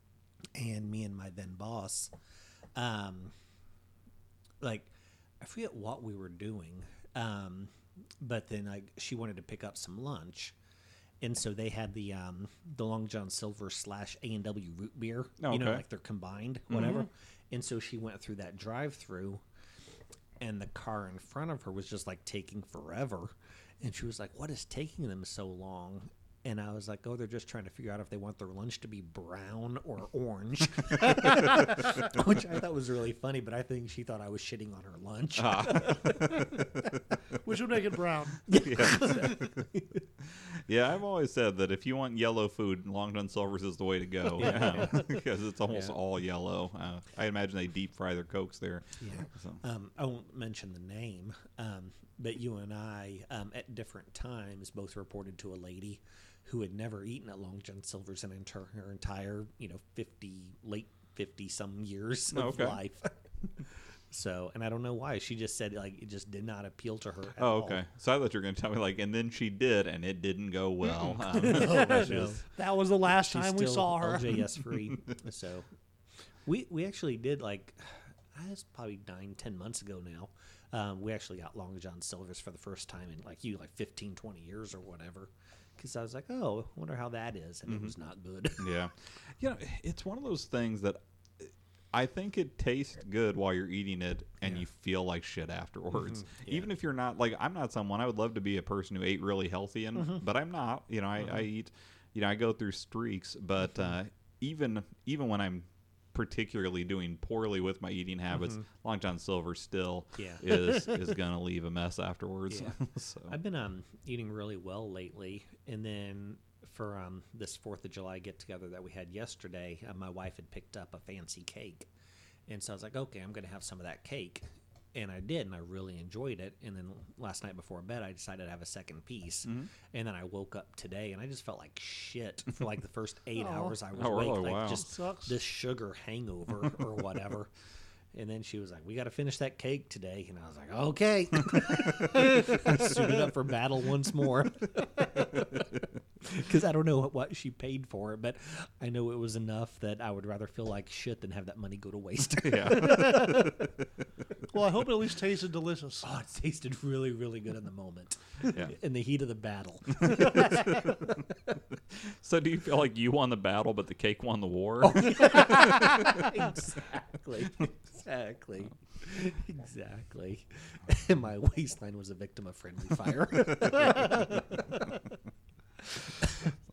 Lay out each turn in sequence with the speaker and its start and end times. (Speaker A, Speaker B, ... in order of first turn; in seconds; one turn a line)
Speaker A: 0.5-2.1
Speaker A: 2.8-3.3
Speaker A: 4.6-10.5
Speaker A: 11.2-19.4
Speaker B: 15.4-15.8
Speaker B: 16.7-17.0
Speaker A: 20.4-36.9
Speaker B: 35.4-37.0
Speaker C: 37.4-38.5
Speaker A: 38.5-40.0
Speaker B: 38.5-39.6
Speaker B: 40.2-49.6
Speaker A: 44.3-45.9
Speaker A: 49.0-63.1
Speaker B: 62.3-62.8
Speaker A: 64.1-67.8
Speaker B: 67.4-72.3
Speaker A: 71.1-72.4
Speaker C: 71.3-74.4
Speaker A: 73.1-75.7
Speaker A: 76.5-88.7
Speaker B: 87.7-87.9
Speaker B: 88.6-113.3
Speaker A: 96.2-96.6
Speaker A: 110.2-110.5
Speaker A: 112.5-112.8
Speaker A: 113.3-121.9
Speaker A: 122.5-137.5
Speaker C: 133.4-133.8
Speaker B: 133.9-134.8
Speaker C: 134.7-135.3
Speaker A: 138.1-153.7
Speaker B: 152.4-153.7
Speaker C: 154.5-156.0
Speaker A: 156.0-161.3
Speaker B: 160.1-160.7
Speaker B: 161.9-166.3
Speaker A: 164.8-175.0